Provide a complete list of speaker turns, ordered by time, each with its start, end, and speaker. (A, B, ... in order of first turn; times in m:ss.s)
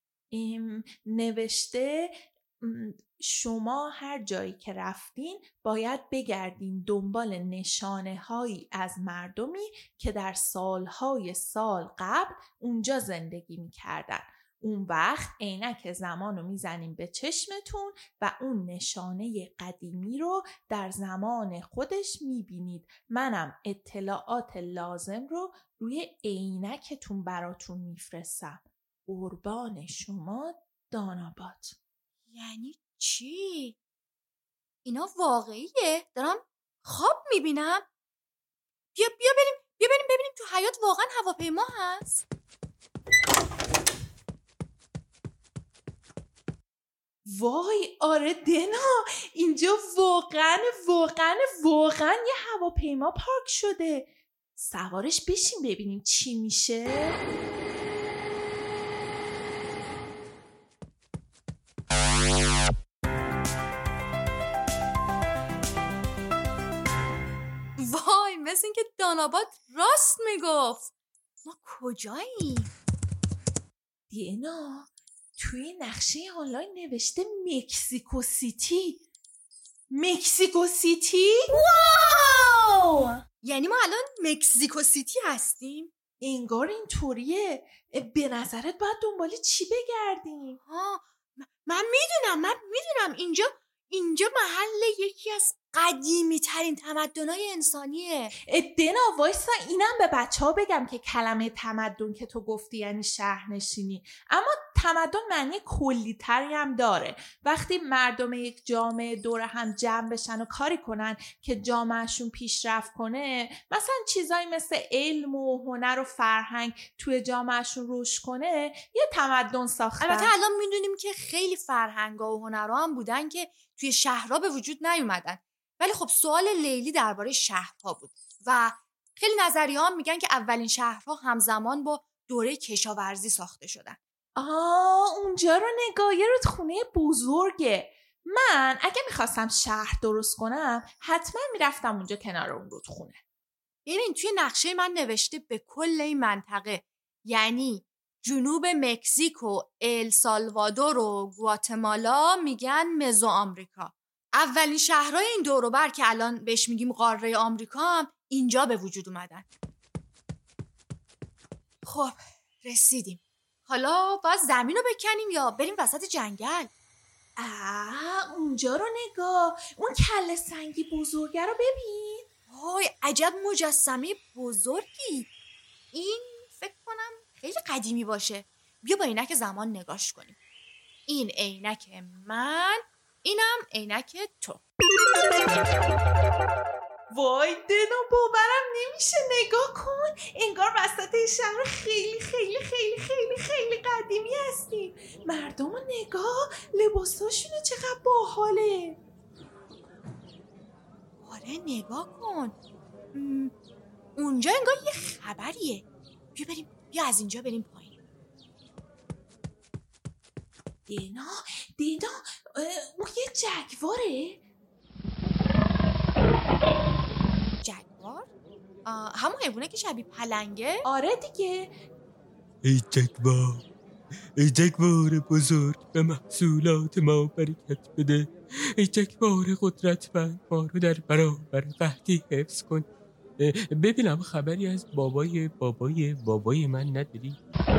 0:00.3-0:31.8 A
0:32.3-0:33.8 B
0:34.8-0:37.8 B
0:38.9-0:42.2 B
0:47.3-0:57.2 A
1:07.8-1:10.9 B
1:11.4-1:12.7 B
1:14.1-1:19.0 A
1:19.9-1:21.5 A
1:23.4-1:25.9 B
1:26.2-1:30.6 A
1:30.7-1:38.3 B
1:38.5-2:00.3 A
2:00.0-2:14.0 B
2:14.4-2:23.2 A
2:23.9-2:39.4 B
2:41.8-2:46.7 B
2:47.4-2:52.2 A
2:52.5-2:55.3 B
2:55.9-3:00.4 B
3:01.1-3:04.6 B
3:07.1-3:19.0 A
3:21.2-3:22.6 B
3:23.1-3:23.5 B
3:24.2-3:28.0 B
3:30.9-3:34.4 A
3:37.6-3:38.3 B
3:38.9-3:40.8 B
3:40.8-3:41.7 A
3:42.6-3:43.6 C
3:44.4-3:52.9 C
3:53.4-3:57.4 C